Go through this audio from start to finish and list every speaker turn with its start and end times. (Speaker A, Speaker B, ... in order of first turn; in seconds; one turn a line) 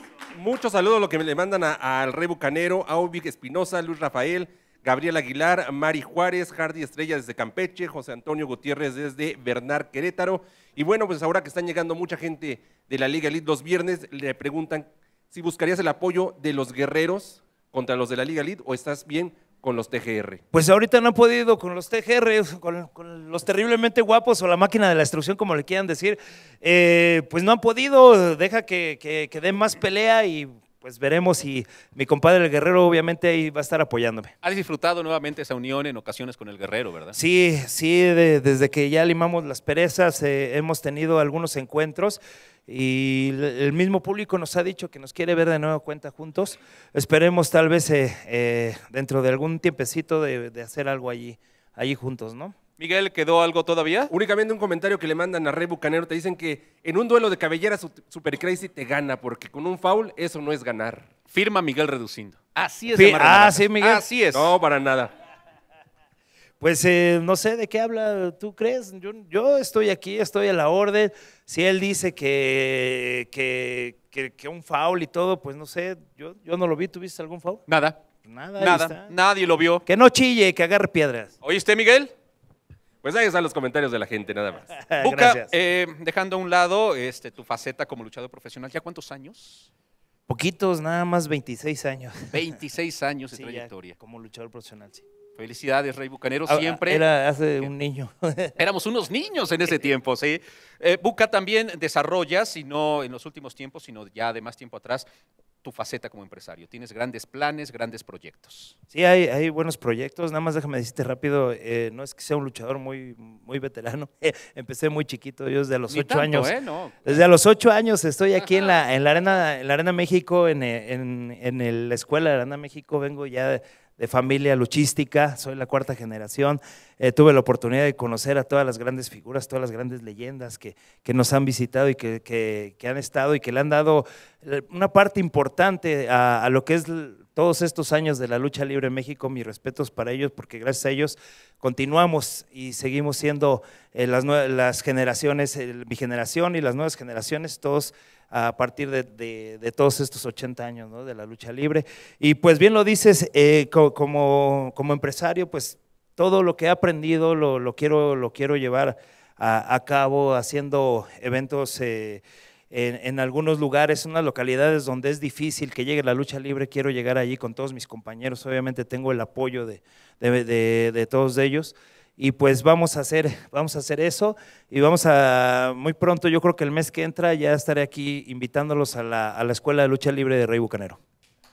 Speaker A: 0.3-20.4
Speaker B: 20.5-34.3
Speaker C: 34.4-37.2
Speaker B: 37.1-52.5
Speaker C: 52.8-54.1
Speaker A: 54.1-61.1
Speaker C: 61.3-64.5
Speaker B: 62.9-64.0
Speaker A: 64.3-65.1
Speaker B: 66.6-77.7
Speaker C: 77.7-78.0
Speaker B: 78.2-79.1
Speaker C: 78.6-79.8
Speaker B: 79.9-81.3
Speaker C: 81.4-82.1
Speaker A: 83.0-84.7
Speaker B: 84.7-85.5
Speaker C: 85.0-89.7
Speaker B: 90.3-92.5
Speaker C: 92.3-94.0
Speaker B: 93.3-95.0
Speaker C: 95.4-97.0
Speaker B: 96.5-98.6
Speaker C: 98.6-105.1
Speaker C: 105.6-108.8
Speaker B: 108.9-116.5
Speaker C: 115.9-117.2
Speaker B: 117.0-181.0
Speaker C: 118.4-118.8